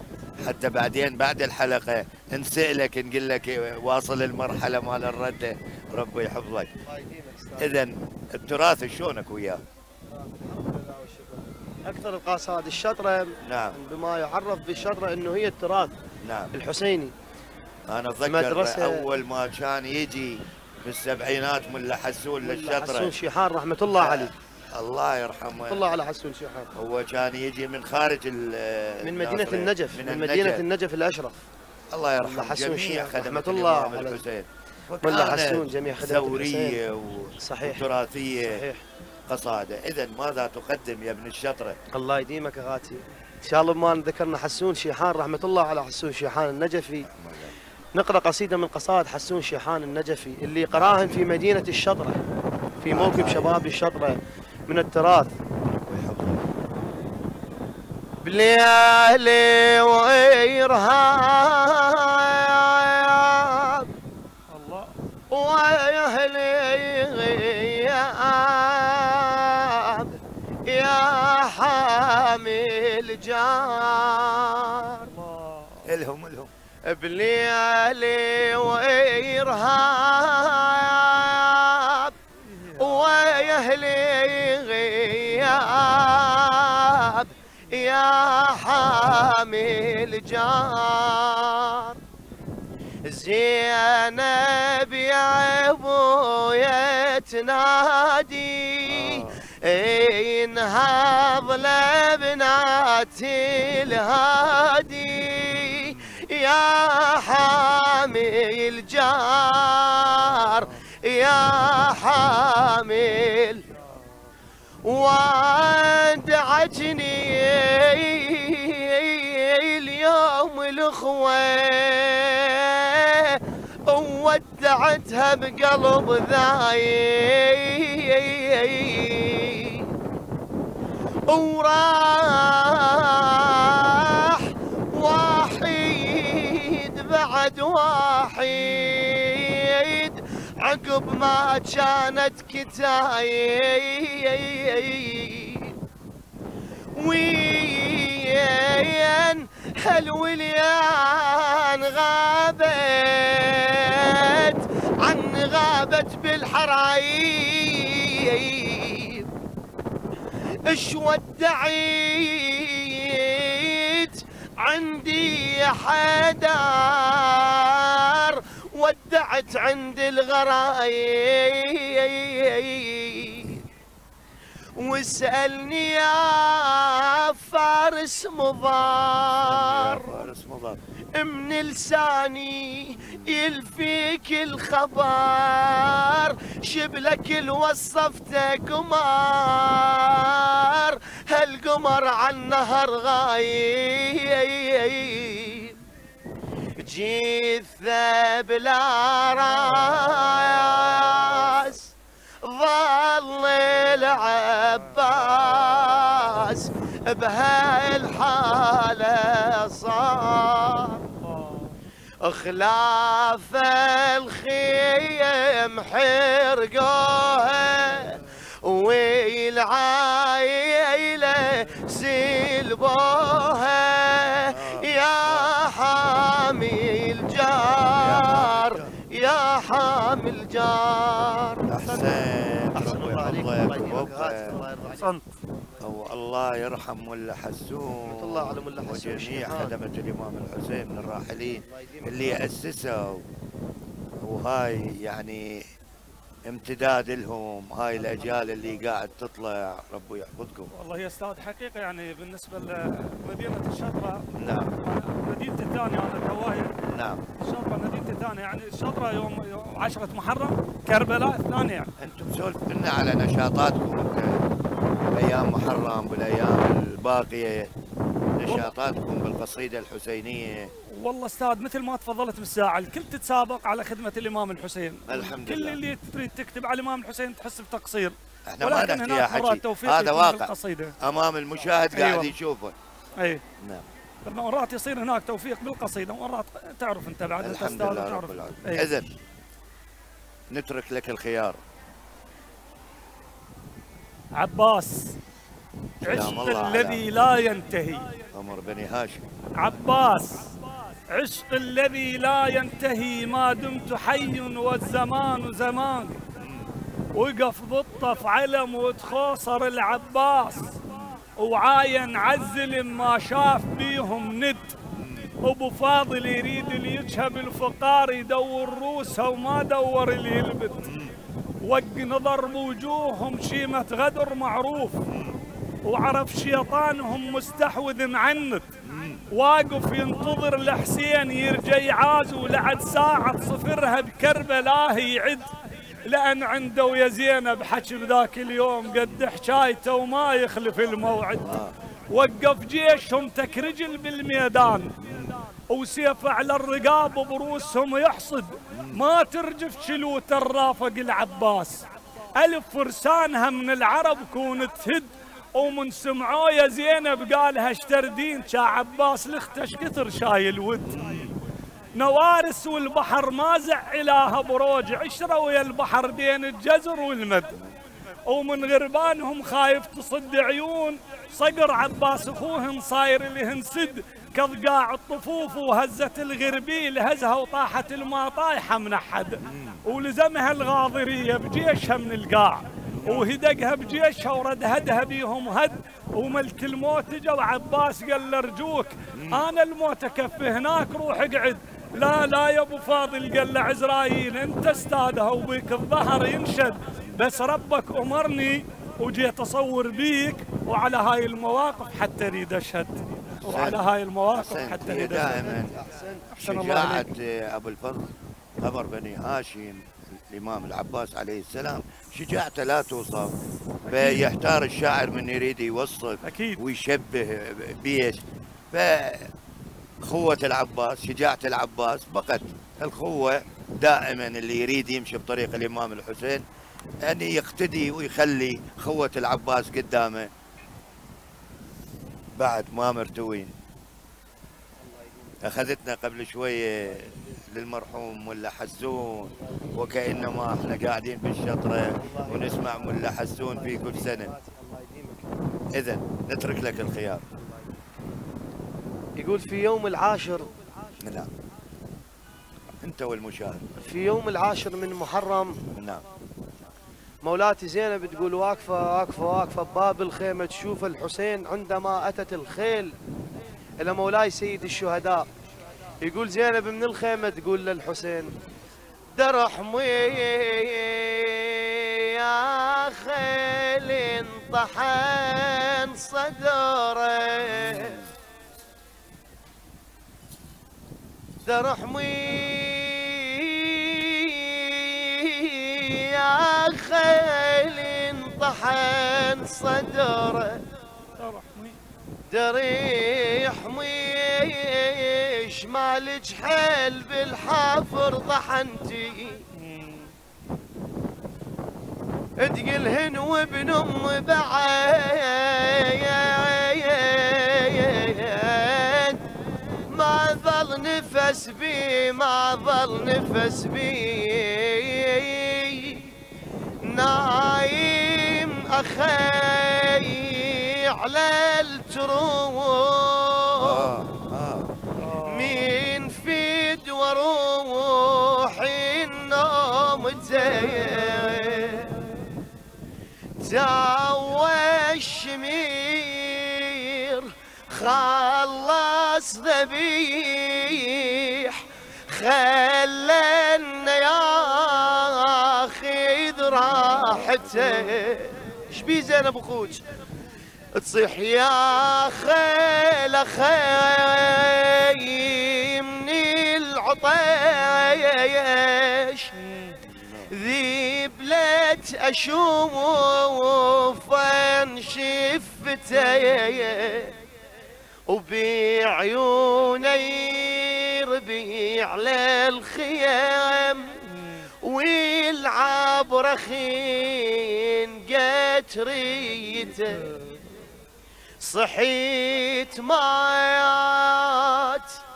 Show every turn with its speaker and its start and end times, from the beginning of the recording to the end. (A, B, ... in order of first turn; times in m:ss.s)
0:00.4-0:06.7 A
0:06.8-0:07.8 B
0:07.6-0:09.6 A
0:10.1-0:15.9 B
0:13.4-0:13.8 A
0:16.2-0:16.5 A
0:16.5-0:17.1 B
0:17.9-0:23.1 A
0:18.2-0:19.1 B
0:22.4-0:24.3 B
0:24.0-0:25.8 A
0:25.7-0:26.7 B
0:26.7-0:30.6 A
0:29.0-0:31.4 B
0:31.9-0:38.6 A
0:32.2-0:34.2 B
0:35.0-0:36.8 B
0:37.4-0:37.8 B
0:38.4-0:38.8 B
0:39.3-0:41.8 A
0:41.9-0:47.1 B
0:47.1-0:47.5 A
0:47.9-0:52.2 B
0:52.8-0:55.3 B
0:52.9-0:53.6 A
0:55.7-0:56.5 A
0:58.2-1:03.9 B
1:04.5-1:04.9 C
1:05.3-1:15.1 B
1:15.1-1:15.8 C
1:15.8-1:16.5 A
1:16.9-1:22.1 B
1:22.4-1:23.5 C
1:22.8-1:32.0 B
1:33.0-1:53.6 B
1:38.8-1:39.4 A
1:45.8-1:46.1 A
1:54.8-2:09.9 B
2:11.3-2:25.8 B
2:27.0-2:39.3 B
2:40.6-2:53.6 B
2:54.8-3:00.2 B
2:59.4-3:00.8 A
3:01.1-3:15.8 B
3:03.0-3:03.4 A
3:16.8-3:31.0 B
3:31.2-3:31.8 C
3:32.2-3:55.2 B
3:44.5-3:45.5 A
3:47.9-3:48.9 A
3:51.7-3:54.6 A
3:55.0-3:55.2 C
3:55.8-4:03.2 A
3:58.0-3:59.7 B
4:01.6-4:02.4 B
4:04.2-4:05.6 A
4:06.4-4:10.7 A
4:08.3-4:08.7 B
4:10.7-4:16.8 C
4:14.3-4:14.7 A
4:16.9-4:17.2 A
4:17.4-4:21.9 C
4:22.0-4:24.4 A
4:25.1-4:27.7 A
4:28.4-4:30.7 A
4:30.9-4:40.9 C
4:35.1-4:35.8 A
4:38.5-4:42.7 A
4:41.9-4:42.3 C
4:43.2-4:43.4 C
4:43.6-4:43.9 A
4:44.2-4:48.9 C
4:47.4-4:49.1 A
4:50.5-4:51.6 A
4:54.4-4:55.2 C
4:56.0-4:57.0 A
4:56.0-4:58.1 C
4:58.3-4:59.2 A
4:59.6-5:06.2 C
5:06.4-5:06.7 A
5:07.1-5:10.8 C
5:11.4-5:14.8 C
5:15.0-5:15.3 A
5:15.4-5:20.9 C
5:20.8-5:21.1 A
5:21.6-5:25.0 C
5:25.1-5:25.4 A
5:25.8-5:28.7 C
5:28.8-5:29.2 A
5:29.3-5:35.4 C
5:36.0-5:41.6 C
5:41.4-5:41.8 A
5:42.1-5:44.9 C
5:45.0-5:45.3 A
5:45.7-6:01.0 C
5:48.7-5:49.0 A
6:00.8-6:01.3 A
6:01.9-6:07.6 C
6:08.3-6:45.4 C
6:19.4-6:19.8 A
6:22.9-6:23.3 A
6:29.1-6:29.4 A
6:43.3-6:45.8 A
6:44.9-6:46.3 B
6:46.3-6:47.1 C
6:46.4-6:53.4 A
6:53.9-6:54.2 C
6:53.9-6:59.3 A
6:56.2-6:56.6 C
7:00.0-7:06.4 A
7:07.0-7:10.3 A
7:12.4-7:13.5 A
7:14.8-7:15.4 B
7:15.4-7:24.3 A
7:16.8-7:17.4 B
7:19.4-7:20.4 B
7:21.9-7:25.3 B
7:25.7-7:27.2 A
7:27.4-7:27.7 B
7:29.2-7:30.5 B
7:31.0-7:31.3 A
7:32.8-7:33.7 A
7:33.8-7:35.6 B
7:35.7-7:36.0 A
7:37.2-7:42.9 B
7:43.8-7:45.3 B
7:46.0-7:48.3 B
7:49.1-7:58.0 B
7:57.5-7:58.1 A
8:01.4-8:10.6 B
8:11.2-8:11.8 C
8:12.3-8:19.4 B
8:19.5-8:20.1 C
8:22.4-8:29.2 B
8:29.9-8:36.1 B
8:36.8-8:43.9 B
8:43.6-8:44.7 A
8:45.0-8:45.7 C
8:45.2-8:52.0 B
8:53.4-9:09.8 B
8:57.8-8:58.1 A
9:06.9-9:07.7 A
9:10.7-9:19.3 B
9:19.4-9:19.8 C
9:19.9-9:20.3 A
9:20.3-9:27.2 B
9:28.1-9:34.0 B
9:34.6-9:40.1 B
9:40.0-9:40.4 C
9:41.4-9:45.0 B